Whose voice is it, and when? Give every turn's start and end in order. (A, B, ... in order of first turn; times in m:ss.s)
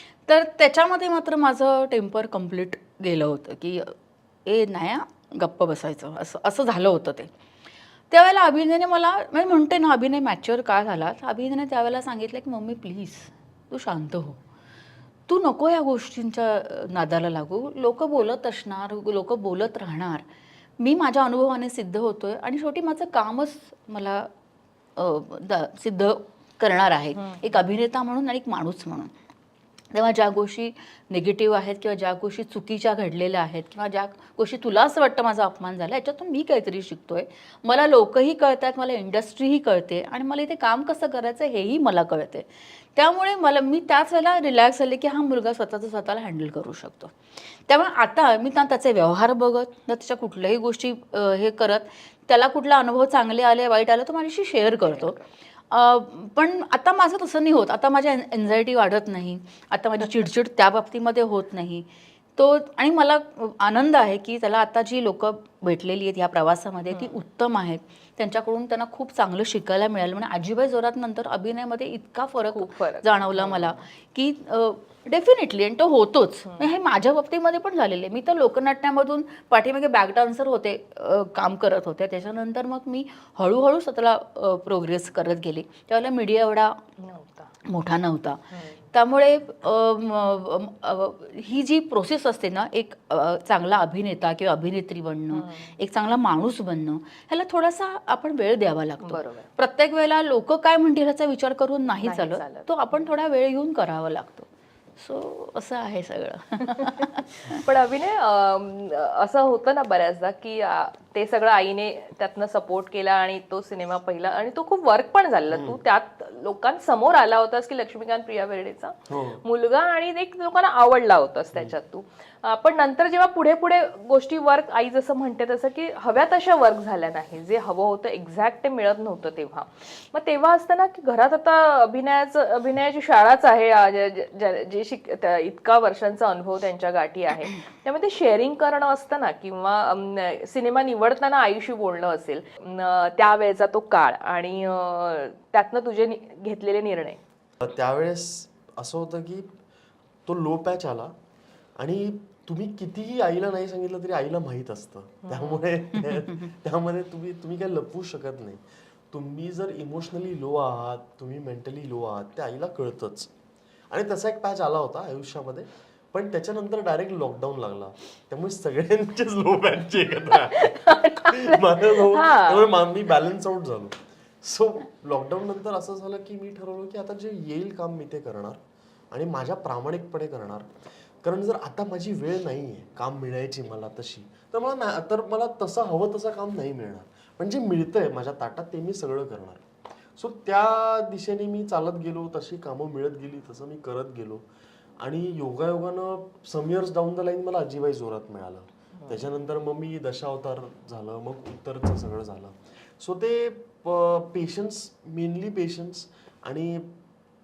0:00.3-0:03.9 A
0:04.4-0:07.3 A
0:08.1-0:14.4 A
0:15.3-0:20.2 A
0:20.8-0:24.3 A
0:25.0-0:29.1 A
0:27.2-0:27.5 B
0:29.9-0:47.1 A
0:47.7-0:55.2 A
0:55.7-1:01.8 A
1:02.4-1:26.8 A
1:06.9-1:07.2 B
1:12.5-1:13.8 B
1:27.0-1:27.5 B
1:27.6-1:47.6 A
1:28.5-1:28.8 B
1:35.3-1:35.8 B
1:39.0-1:39.5 B
1:42.0-1:42.7 B
1:46.7-2:27.2 B
1:55.5-1:55.8 C
1:59.1-1:59.4 C
2:27.6-2:29.5 C
2:30.2-2:31.1 C
2:31.8-2:43.3 C
2:35.2-2:35.7 B
2:43.9-2:58.6 C
2:50.4-2:52.7 B
2:59.1-3:00.7 C
3:01.2-3:09.6 C
3:10.2-3:14.4 C
3:15.0-3:26.9 C
3:19.0-3:19.2 B